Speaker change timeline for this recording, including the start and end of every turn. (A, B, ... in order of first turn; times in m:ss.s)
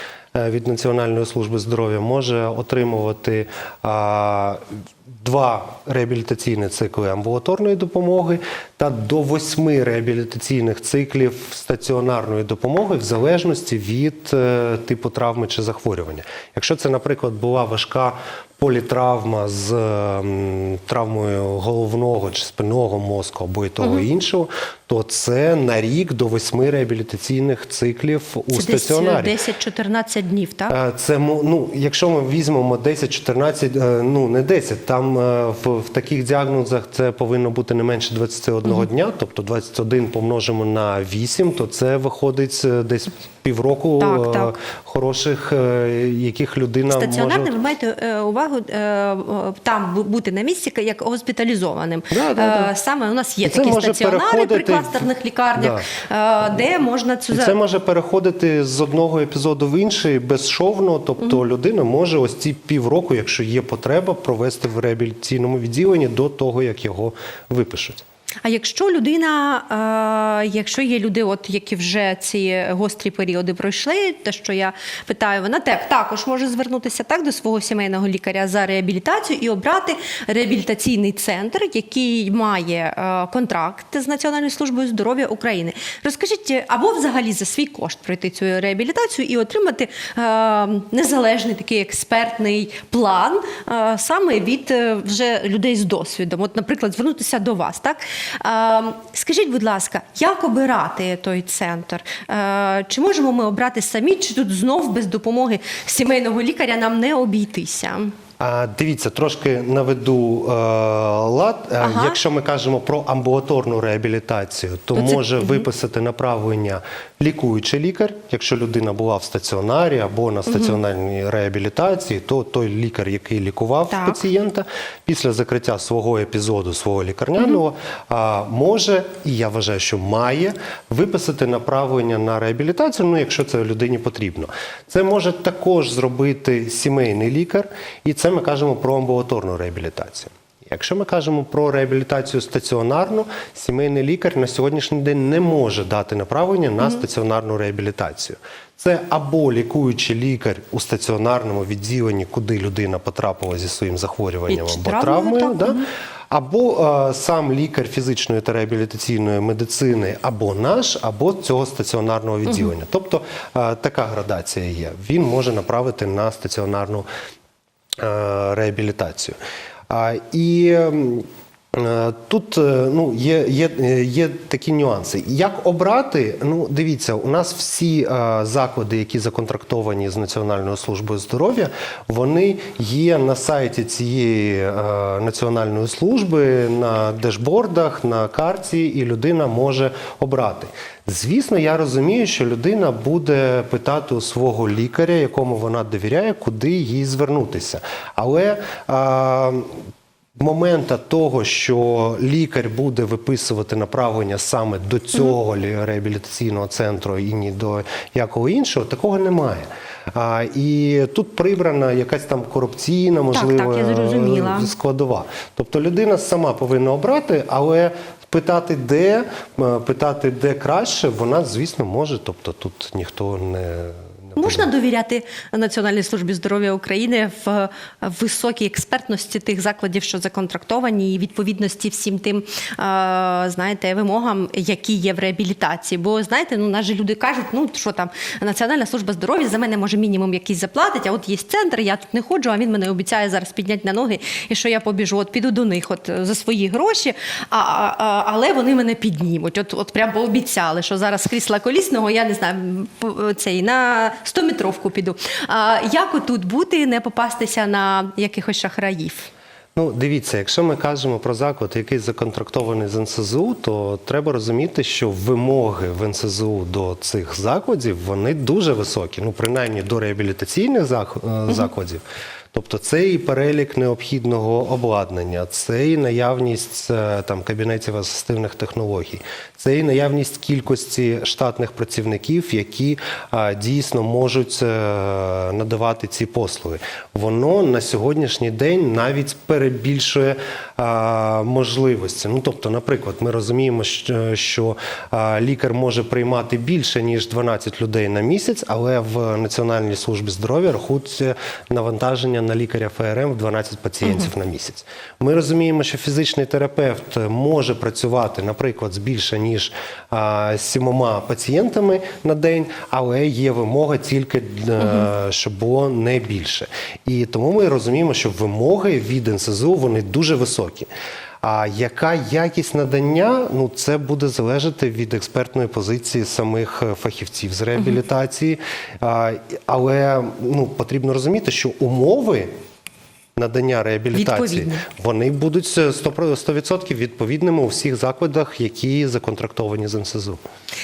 0:00.3-0:29.3 A
0:28.5-0:30.8 B
0:30.7-0:47.5 A
0:44.0-0:44.5 B
0:46.9-0:57.6 B
0:52.1-0:52.7 A
0:53.4-0:55.9 A
0:57.3-1:08.0 A
1:08.4-1:48.2 B
1:48.4-2:35.8 A
1:51.8-1:52.2 B
1:55.0-1:55.6 B
2:00.5-2:00.8 B
2:03.9-2:04.2 B
2:34.5-2:35.9 B
2:36.3-2:47.1 A
2:48.0-2:49.4 A
2:49.9-3:19.8 A
3:20.4-3:44.7 A
3:33.3-3:34.7 B
3:44.4-4:19.3 B
4:19.8-5:20.9 A
5:04.0-5:04.3 B
5:21.4-5:32.5 A
5:33.4-5:40.4 A
5:34.1-5:34.8 B